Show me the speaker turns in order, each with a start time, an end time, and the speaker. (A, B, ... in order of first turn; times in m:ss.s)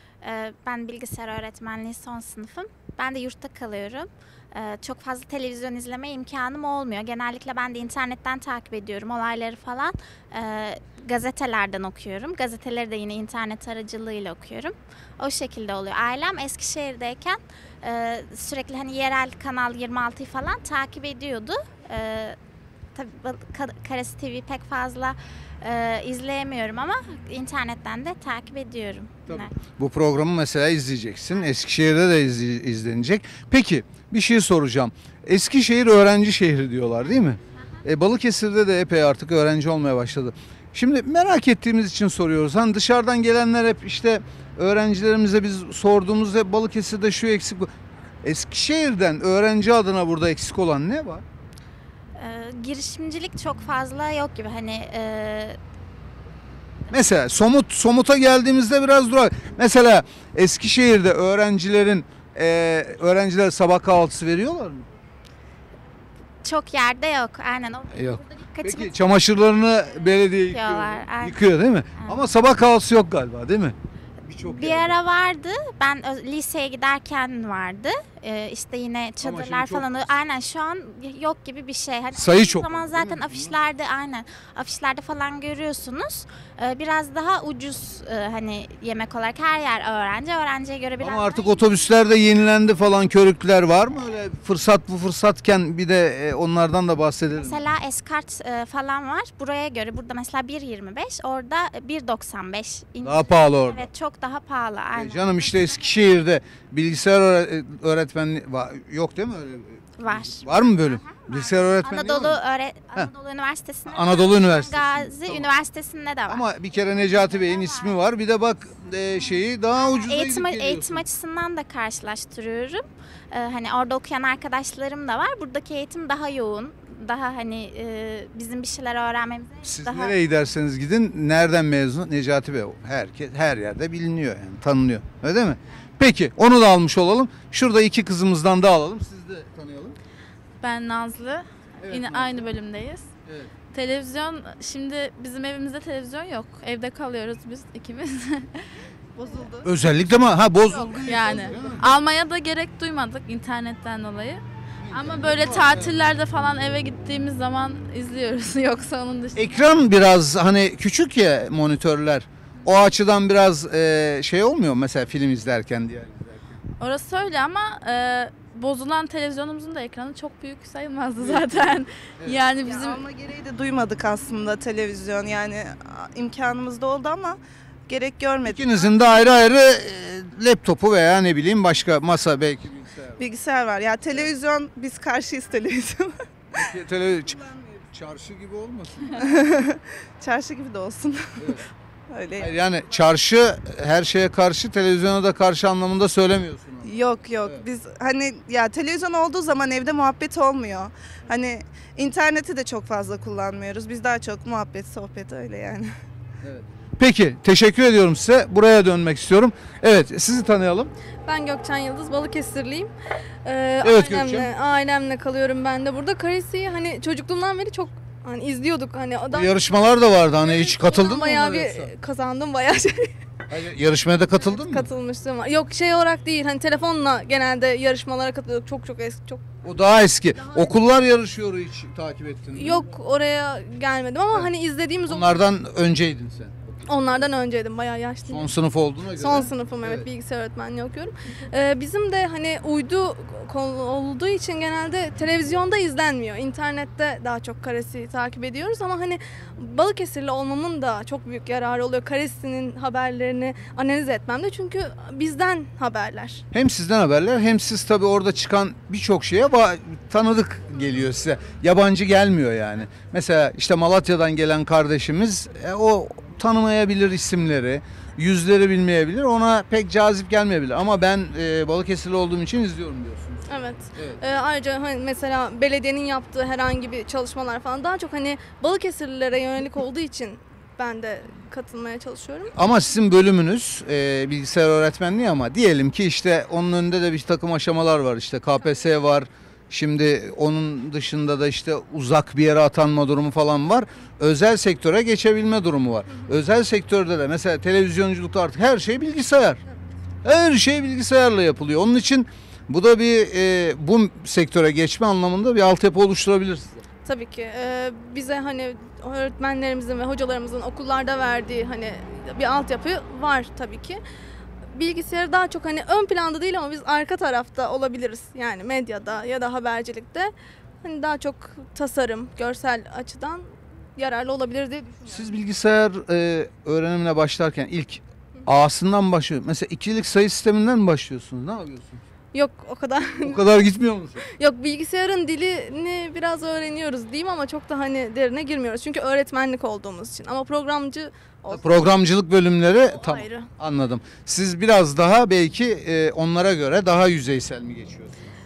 0:00.2-0:22.4 A
0:22.9-0:29.5 A
0:29.3-0:47.7 B
0:48.2-0:51.2 B
0:52.2-0:55.6 A
0:56.9-1:04.9 B
1:06.4-1:09.3 A
1:07.9-1:15.0 B
1:10.3-1:12.2 A
1:14.4-1:31.6 A
1:19.2-1:20.1 B
1:22.1-1:23.6 B
1:31.0-1:37.6 B
1:37.3-1:46.0 A
1:43.0-1:43.9 B
1:44.9-1:52.4 B
1:50.0-1:56.4 A
1:53.9-1:55.5 B
1:56.3-2:01.0 B
1:57.1-1:58.0 A
1:59.8-2:10.2 A
2:09.6-2:20.0 B
2:20.6-2:23.1 C
2:21.8-2:22.4 B
2:23.3-2:23.5 B
2:23.7-2:29.7 C
2:29.6-2:32.0 B
2:30.7-2:39.6 C
2:34.8-2:35.9 B
2:39.4-2:46.6 B
2:46.8-2:53.1 C
2:51.2-2:52.4 B
2:52.7-2:59.2 D
2:58.4-3:03.3 B
3:03.2-3:06.2 D
3:04.1-3:04.3 B
3:06.6-3:09.2 B
3:09.2-3:11.6 D
3:11.4-3:11.6 B
3:12.1-3:12.6 D
3:12.4-3:17.7 B
3:16.8-3:25.9 D
3:26.4-3:30.9 B
3:31.2-3:32.9 E
3:33.4-3:39.6 E
3:33.8-3:34.5 B
3:39.3-3:41.9 B
3:40.4-3:43.1 E
3:43.5-3:44.9 B
3:44.4-3:49.4 E
3:49.6-3:52.8 B
3:50.4-3:50.8 E
3:52.5-3:55.4 E
3:55.0-3:56.9 B
3:56.8-3:58.5 E
3:58.3-4:00.1 B
3:59.1-4:16.4 E
4:16.5-4:33.4 B
4:33.5-4:42.5 E
4:42.6-4:59.6 B
5:00.2-5:06.8 B
5:07.0-5:14.0 E
5:14.7-5:25.3 E
5:25.1-5:32.0 B
5:32.3-5:33.5 E
5:33.2-5:34.2 B
5:34.3-5:41.9 E
5:41.5-5:48.3 B
5:42.9-5:43.5 E